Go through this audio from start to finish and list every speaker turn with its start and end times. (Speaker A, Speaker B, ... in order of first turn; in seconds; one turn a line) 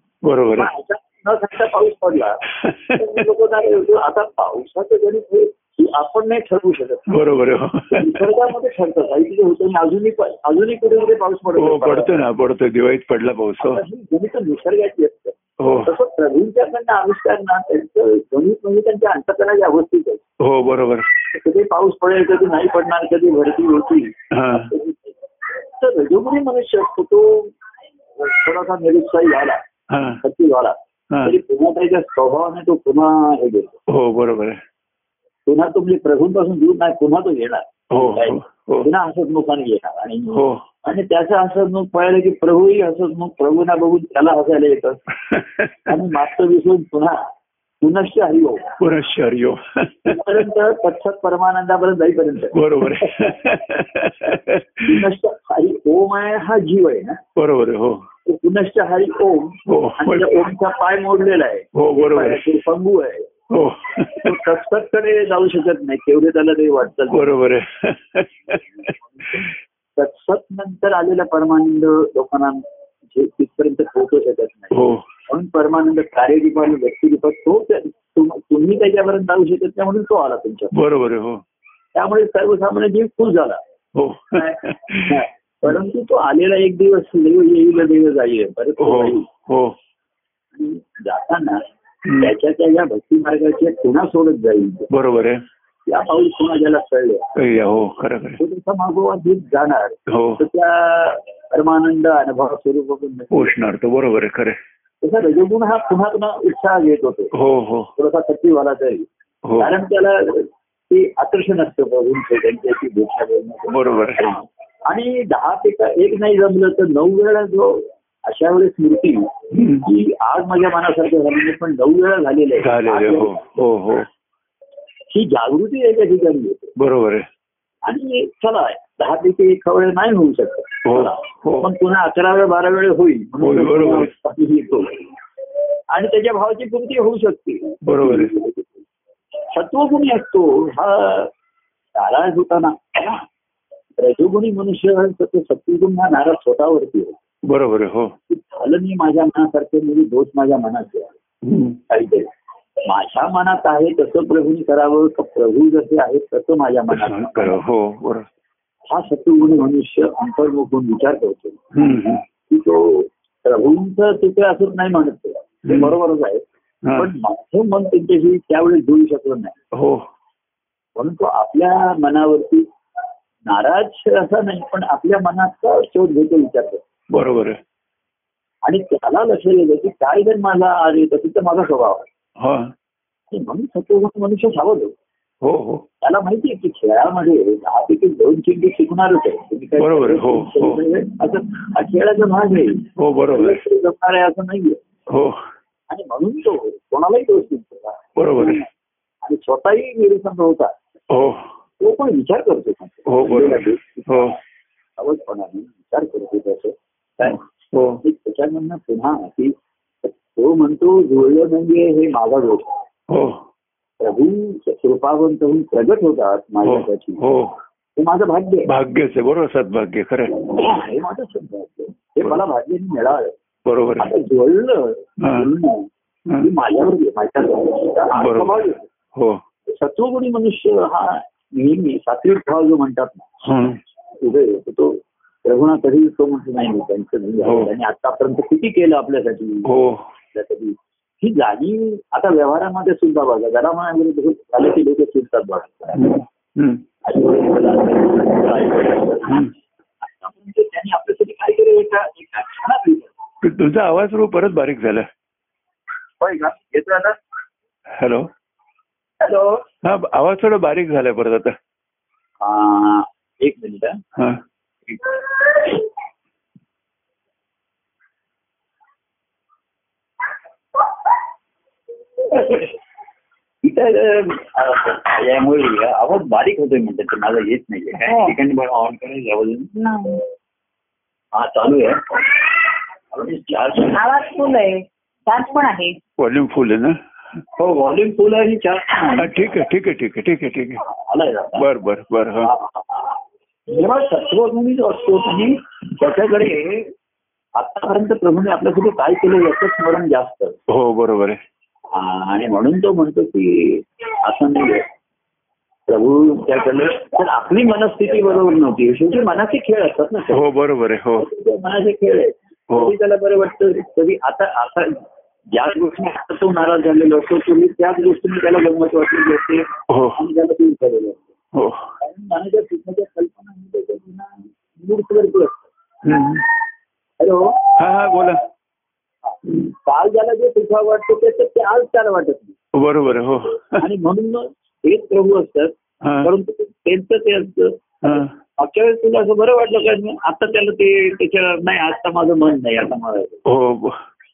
Speaker A: 0.2-0.7
Speaker B: 0.5-7.1
Speaker A: 2.5-3.2
Speaker A: 7.1-8.3
Speaker B: 7.9-12.1
Speaker A: 11.6-13.8
Speaker B: 13.6-20.2
Speaker A: 15.6-15.9
Speaker A: 20.4-21.1
Speaker B: 21.3-27.5
Speaker A: 24.3-24.7
Speaker B: 28.2-29.6
Speaker A: 29.9-30.2
Speaker B: 30.2-33.8
Speaker A: 33.9-34.6
Speaker B: 35.5-45.0
Speaker A: 37.9-38.9
Speaker A: 40.3-40.6
Speaker A: 45.3-46.0
Speaker B: 45.9-47.2
Speaker B: 47.8-48.8
Speaker A: 48.8-50.2
Speaker B: 50.0-53.3
Speaker A: 52.5-55.1
Speaker B: 54.8-57.2
Speaker A: 57.4-58.0
Speaker B: 58.2-63.3
Speaker A: 59.7-60.3
Speaker A: 61.7-62.5
Speaker A: 63.5-64.4
Speaker B: 64.0-67.3
Speaker A: 67.1-68.9
Speaker B: 69.0-80.8
Speaker A: 74.7-75.0
Speaker A: 80.7-81.4
Speaker B: 81.9-83.6
Speaker A: 83.9-85.2
Speaker B: 84.3-89.3
Speaker A: 88.8-89.8
Speaker B: 90.5-91.6
Speaker A: 92.0-92.3
Speaker B: 92.2-94.9
Speaker A: 94.9-95.4
Speaker B: 95.9-97.4
Speaker A: 97.3-98.4
Speaker B: 98.4-103.5
Speaker A: 100.1-100.4
Speaker A: 103.3-104.6
Speaker B: 105.0-107.3
Speaker A: 107.3-107.9
Speaker B: 107.9-109.1
Speaker A: 109.4-109.7
Speaker B: 109.6-123.4
Speaker A: 113.7-114.3
Speaker A: 119.5-119.8
Speaker A: 122.6-124.1
Speaker B: 125.1-126.7
Speaker A: 126.8-127.3
Speaker B: 127.8-135.1
Speaker A: 130.8-131.7
Speaker A: 133.4-134.1
Speaker B: 135.9-138.8
Speaker A: 137.8-138.3
Speaker B: 139.5-141.3
Speaker B: 141.9-143.2
Speaker B: 144.0-147.2
Speaker A: 147.4-148.1
Speaker B: 148.3-151.1
Speaker A: 151.4-151.8
Speaker B: 151.9-152.3
Speaker B: 152.8-157.6
Speaker A: 156.9-158.3
Speaker B: 158.9-161.6
Speaker A: 161.7-162.2
Speaker B: 162.5-166.4
Speaker A: 165.7-165.9
Speaker A: 166.8-167.1
Speaker B: 166.9-169.6
Speaker A: 169.7-170.1
Speaker B: 170.9-172.7
Speaker B: 173.5-176.8
Speaker A: 177.1-177.6
Speaker B: 178.6-182.1
Speaker A: 182.4-182.7
Speaker B: 183.3-184.9
Speaker A: 185.4-185.8
Speaker B: 186.0-194.8
Speaker A: 189.8-190.8
Speaker A: 193.0-193.6
Speaker A: 195.1-195.4
Speaker B: 195.9-198.7
Speaker A: 198.2-198.6
Speaker B: 199.2-200.7
Speaker A: 201.1-201.5
Speaker B: 201.8-204.4
Speaker A: 203.1-204.3
Speaker B: 205.0-207.4
Speaker A: 207.3-208.0
Speaker B: 208.0-212.8
Speaker A: 213.1-213.4
Speaker B: 214.0-217.2
Speaker A: 216.6-217.6
Speaker B: 218.0-218.7
Speaker A: 218.7-220.4
Speaker B: 220.4-223.3
Speaker A: 223.7-224.1
Speaker B: 224.0-228.9
Speaker A: 225.2-225.5
Speaker A: 228.2-229.4
Speaker B: 229.7-233.3
Speaker A: 233.4-233.8
Speaker B: 234.2-239.7
Speaker A: 237.4-237.7
Speaker A: 239.6-240.1
Speaker B: 240.3-246.1
Speaker A: 245.9-246.8
Speaker B: 247.0-253.1
Speaker A: 253.4-255.1
Speaker B: 256.2-257.2
Speaker A: 257.9-258.3
Speaker B: 259.2-259.6
Speaker A: 259.8-261.6
Speaker B: 262.4-264.0
Speaker A: 264.1-264.4
Speaker B: 264.9-265.8
Speaker B: 272.2-272.8
Speaker B: 273.6-279.7
Speaker C: 278.0-278.3
Speaker C: 279.8-280.2
Speaker B: 281.3-282.4
Speaker B: 283.1-284.0
Speaker C: 283.8-286.0
Speaker A: 286.2-287.0
Speaker B: 287.6-289.4
Speaker A: 289.1-290.8
Speaker B: 290.8-291.7
Speaker A: 291.6-292.5
Speaker B: 292.4-296.9
Speaker B: 297.6-300.6
Speaker A: 300.7-301.4
Speaker B: 301.9-304.9
Speaker B: 305.9-310.4
Speaker A: 310.3-311.3
Speaker B: 311.2-321.3
Speaker A: 312.7-312.9
Speaker A: 319.9-320.2
Speaker A: 321.5-321.9
Speaker B: 322.0-325.7
Speaker A: 326.0-326.4
Speaker B: 327.2-327.7
Speaker A: 327.8-328.4
Speaker B: 329.2-332.6
Speaker A: 332.7-333.8
Speaker B: 333.8-343.4
Speaker A: 336.0-336.3
Speaker A: 338.0-338.3
Speaker A: 343.4-344.0